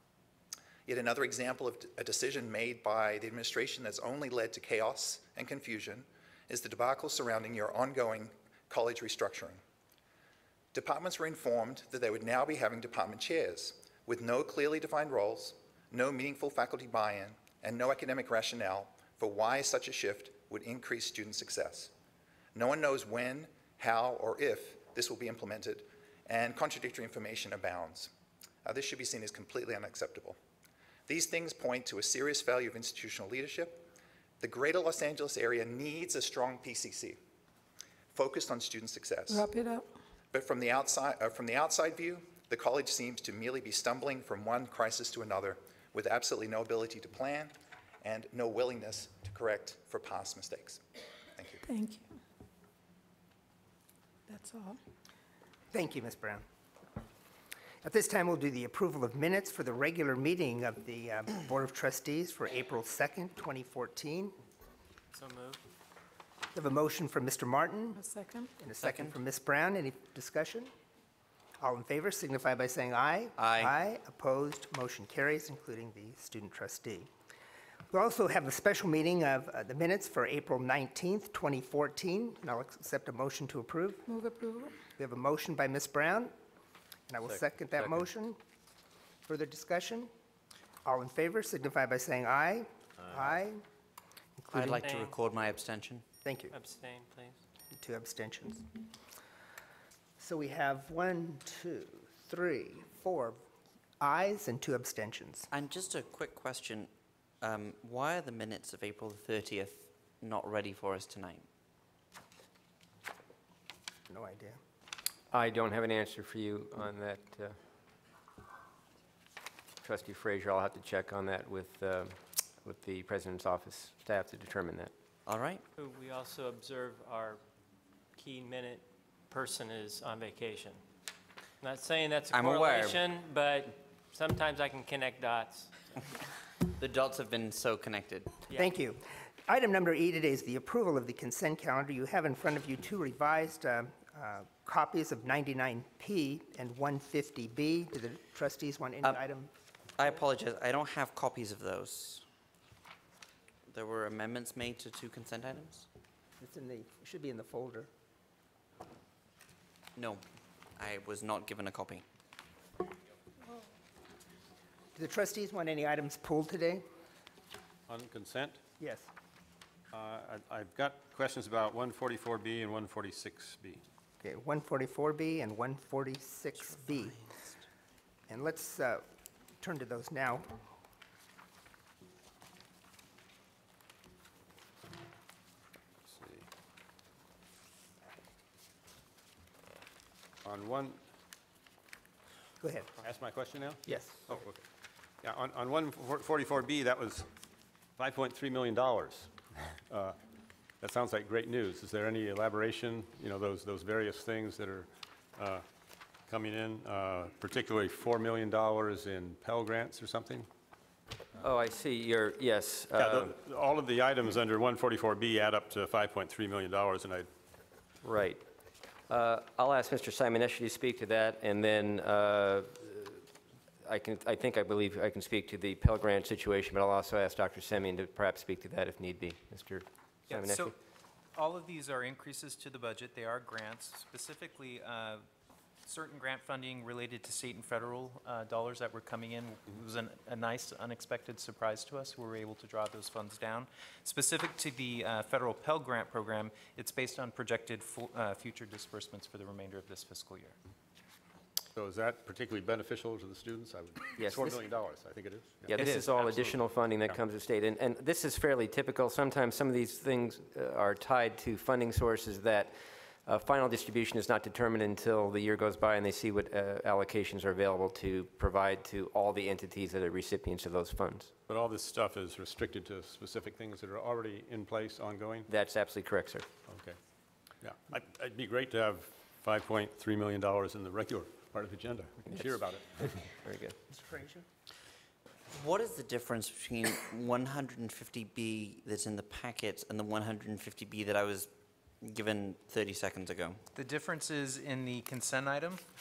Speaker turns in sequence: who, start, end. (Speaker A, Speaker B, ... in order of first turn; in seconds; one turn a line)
Speaker A: 0.9-9.6
Speaker A: 10.7-21.9
Speaker A: 22.6-28.1
Speaker A: 28.6-30.4
Speaker A: 31.1-33.9
Speaker A: 34.4-37.2
Speaker A: 38.1-39.5
Speaker B: 39.3-39.8
Speaker A: 40.3-50.8
Speaker A: 51.4-51.6
Speaker B: 51.6-52.1
Speaker B: 54.3-54.8
Speaker C: 55.7-56.5
Speaker C: 57.8-64.3
Speaker D: 65.1-65.6
Speaker C: 66.5-68.0
Speaker B: 68.0-68.5
Speaker C: 68.6-70.7
Speaker E: 68.8-69.1
Speaker C: 71.6-77.1
Speaker E: 73.4-73.7
Speaker C: 77.9-84.1
Speaker B: 84.1-84.7
Speaker C: 85.0-86.3
Speaker C: 87.1-88.4
Speaker C: 89.3-90.1
Speaker C: 90.8-93.6
Speaker C: 94.4-95.0
Speaker E: 94.5-96.0
Speaker D: 94.8-95.2
Speaker C: 96.2-96.5
Speaker D: 96.5-97.4
Speaker C: 97.7-98.6
Speaker C: 100.2-103.4
Speaker C: 104.0-105.5
Speaker E: 105.5-106.9
Speaker E: 107.4-111.4
Speaker C: 114.1-114.6
Speaker F: 115.3-117.5
Speaker F: 119.8-124.9
Speaker E: 125.3-125.6
Speaker D: 125.8-127.4
Speaker D: 128.2-130.8
Speaker D: 131.6-136.2
Speaker E: 132.3-133.0
Speaker E: 136.8-138.4
Speaker C: 138.5-149.5
Speaker E: 150.0-152.2
Speaker E: 153.7-155.9
Speaker C: 156.4-157.9
Speaker E: 160.0-160.2
Speaker E: 160.8-162.0
Speaker C: 165.0-166.8
Speaker G: 167.9-168.6
Speaker C: 168.8-169.1
Speaker G: 169.9-173.8
Speaker C: 174.2-177.2
Speaker C: 178.3-179.0
Speaker C: 179.6-180.6
Speaker G: 186.1-186.5
Speaker G: 190.4-191.0
Speaker C: 192.6-192.9
Speaker G: 193.0-194.6
Speaker C: 193.9-194.2
Speaker G: 195.2-197.3
Speaker G: 198.0-200.2
Speaker G: 200.8-205.6
Speaker G: 206.3-210.5
Speaker F: 211.4-213.3
Speaker G: 213.0-217.3
Speaker F: 218.0-218.4
Speaker F: 219.1-223.2
Speaker F: 223.8-230.7
Speaker H: 230.3-230.7
Speaker H: 231.3-235.2
Speaker H: 235.9-250.6
Speaker G: 251.7-255.9
Speaker F: 254.2-254.6
Speaker F: 255.7-262.7
Speaker H: 255.8-256.5
Speaker F: 263.2-271.3
Speaker G: 271.5-275.5
Speaker F: 275.5-276.5
Speaker G: 276.7-277.0
Speaker G: 277.6-283.3
Speaker F: 283.4-283.8
Speaker C: 283.9-284.4
Speaker E: 285.5-291.5
Speaker E: 292.0-293.6
Speaker H: 293.8-295.8